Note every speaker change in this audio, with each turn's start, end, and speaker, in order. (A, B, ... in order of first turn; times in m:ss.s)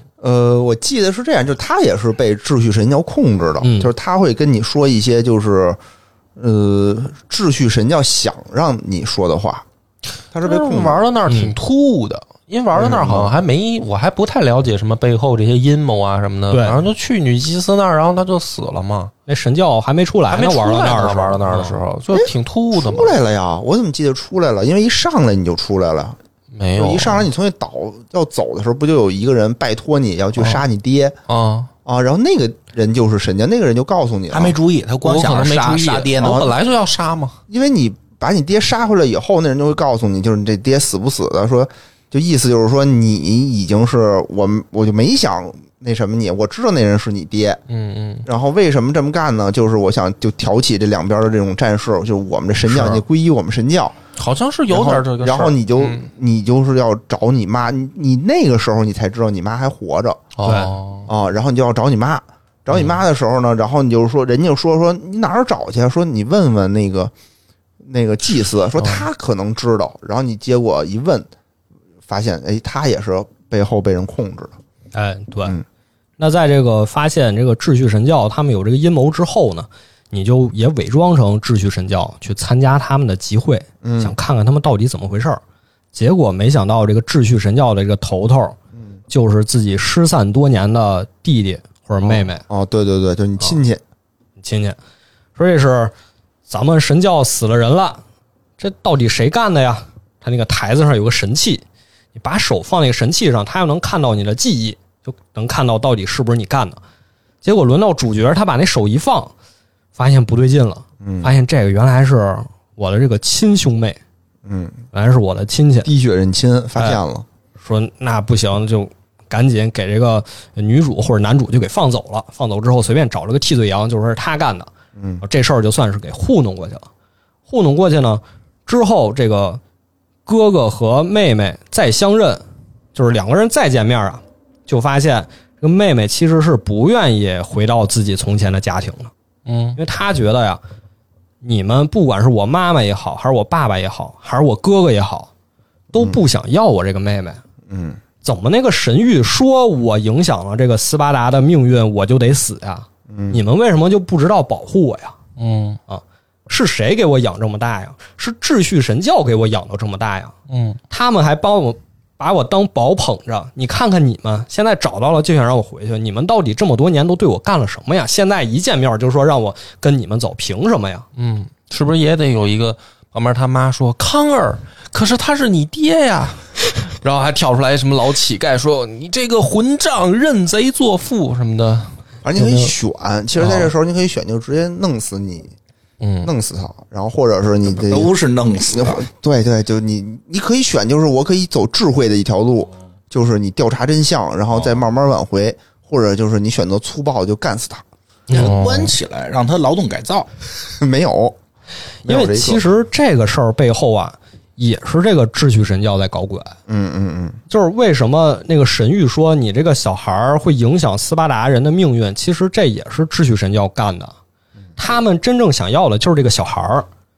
0:00.2-0:05.8 A
0:03.6-0:03.9 B
0:06.4-0:09.6 A
0:10.3-0:11.0 A
0:10.4-0:19.1 C
0:11.3-0:11.5 B
0:12.7-0:13.3 A
0:16.5-0:16.8 B
0:19.3-0:21.8 B
0:20.3-0:23.1 C
0:22.1-0:26.2 A
0:26.5-0:27.2 C
0:26.8-0:31.2 A
0:30.4-0:30.6 C
0:31.3-0:31.7 C
0:31.8-0:34.5 A
0:34.3-0:36.4 D
0:35.0-0:37.4 C
0:36.2-0:36.5 A
0:37.5-0:47.6 A
0:47.7-0:48.2 C
0:48.2-0:54.0 A
0:54.2-0:56.0 C
0:54.7-1:00.2 A
1:00.4-1:01.1 C
1:00.4-1:00.7 B
1:01.1-1:07.1 A
1:07.8-1:11.3 A
1:12.1-1:14.5 A
1:14.9-1:15.6 B
1:16.2-1:25.4 B
1:23.8-1:24.1 A
1:25.9-1:28.6 B
1:29.1-1:32.4 B
1:32.0-1:33.8 A
1:34.4-1:34.8 B
1:35.4-1:35.9 B
1:36.5-1:38.0 B
1:38.6-1:41.6 B
1:42.1-1:46.8 B
1:47.4-1:49.3 B
1:49.9-1:54.0 B
1:51.0-1:51.3 A
1:54.4-1:54.8 A
1:54.9-1:55.9 B
1:55.8-1:57.2 A
1:57.6-2:04.7 B
2:05.0-2:05.2 A
2:05.2-2:06.8 B
2:07.5-2:09.6 B
2:10.2-2:12.4 B
2:12.9-2:19.1 B
2:19.4-2:19.8 C
2:19.8-2:20.6 B
2:21.4-2:25.3 B
2:25.9-2:27.4 B
2:26.0-2:26.2 A
2:27.7-2:28.0 A
2:28.2-2:35.2 B
2:33.1-2:33.4 A
2:35.4-2:35.8 C
2:35.9-2:40.3 B
2:40.5-2:40.8 C
2:40.9-2:51.1 B
2:51.2-3:02.6 C
3:02.2-3:05.5 A
3:03.4-3:03.7 C
3:06.0-3:06.3 C
3:06.2-3:08.1 A
3:07.7-3:09.0 D
3:08.7-3:17.8 A
3:18.3-3:20.3 D
3:18.3-3:19.0 C
3:20.7-3:21.4 A
3:22.0-3:22.6 A
3:22.0-3:26.6 B
3:26.7-3:27.4 A
3:27.5-3:34.1 B
3:34.8-3:36.9 B